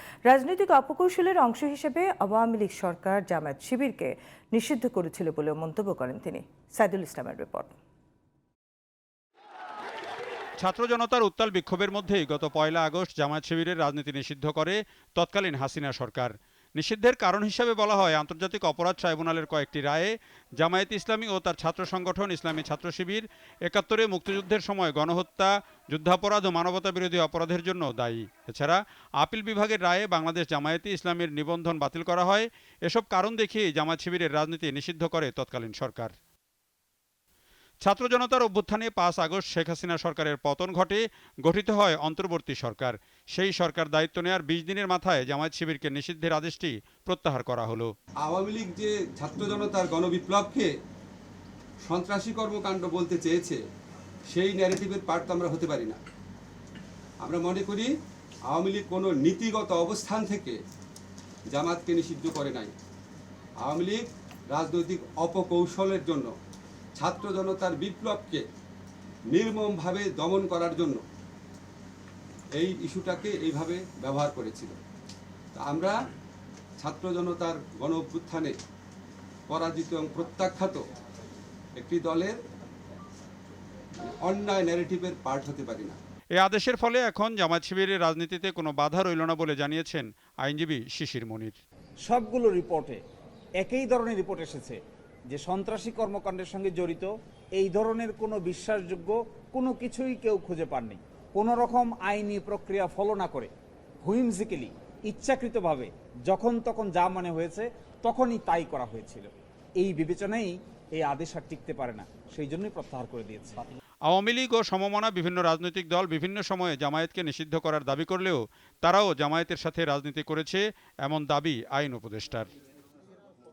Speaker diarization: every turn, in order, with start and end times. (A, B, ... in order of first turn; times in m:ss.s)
0:00.3-0:07.7 A
0:10.6-0:36.1 B
0:37.8-0:47.9 B
0:48.2-0:50.7 C
0:51.8-0:53.6 C
0:54.3-0:56.0 C
0:57.2-0:57.9 C
0:58.5-1:00.6 C
1:01.5-1:02.7 C
1:03.6-1:06.3 C
1:07.0-1:08.4 C
1:09.3-1:11.0 C
1:12.6-1:14.8 C
1:15.5-1:16.0 C
1:16.8-1:18.5 C
1:19.5-1:20.8 C
1:21.8-1:22.4 C
1:24.0-1:26.0 C
1:26.4-1:31.6 B
1:32.1-1:33.0 D
1:33.6-1:34.8 D
1:35.3-1:43.5 D
1:44.0-1:49.2 D
1:49.8-1:53.5 D
1:54.1-2:02.5 B